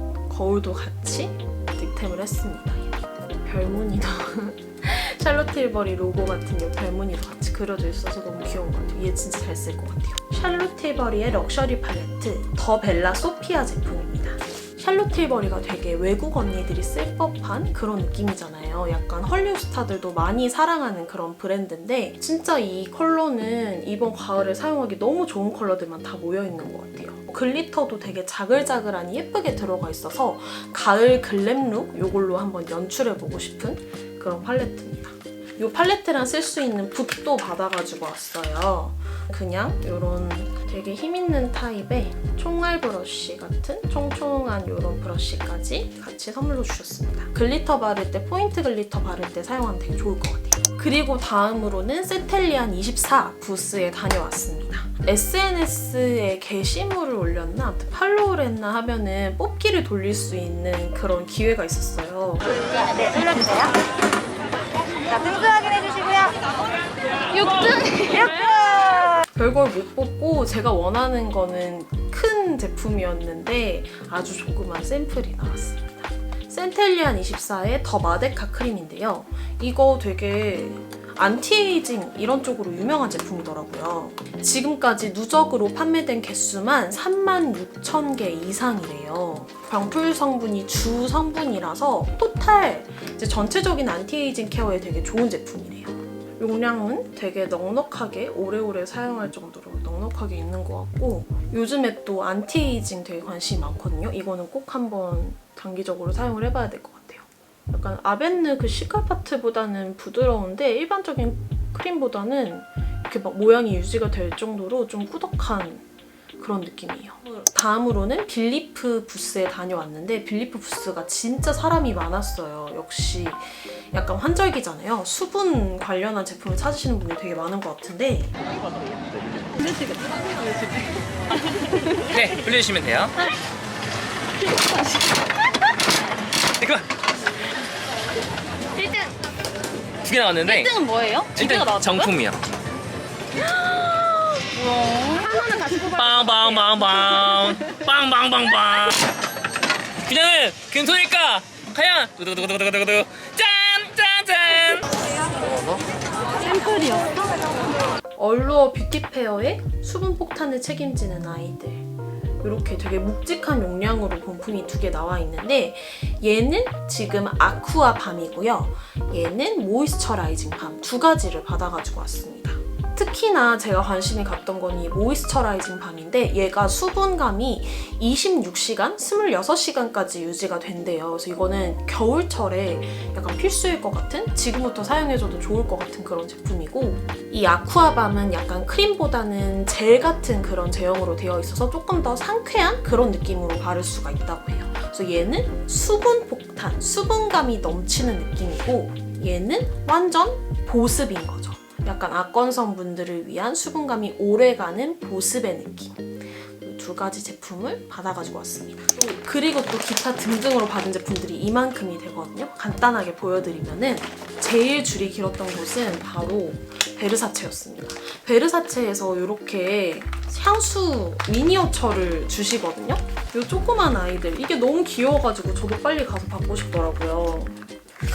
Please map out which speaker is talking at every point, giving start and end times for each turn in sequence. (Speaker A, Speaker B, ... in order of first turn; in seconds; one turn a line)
Speaker A: 0.3-62.5
Speaker B: 62.8-63.7
Speaker B: 65.1-66.4
Speaker B: 67.3-69.1
Speaker A: 69.0-115.8
Speaker A: 116.4-128.3
Speaker C: 132.1-133.2
Speaker C: 136.6-136.8
Speaker B: 138.8-139.1
Speaker C: 140.1-142.4
Speaker B: 140.5-141.9
Speaker B: 144.6-145.8
Speaker C: 145.4-149.0
Speaker C: 150.1-154.9
Speaker B: 156.6-157.0
Speaker A: 158.2-161.9
Speaker A: 162.4-227.6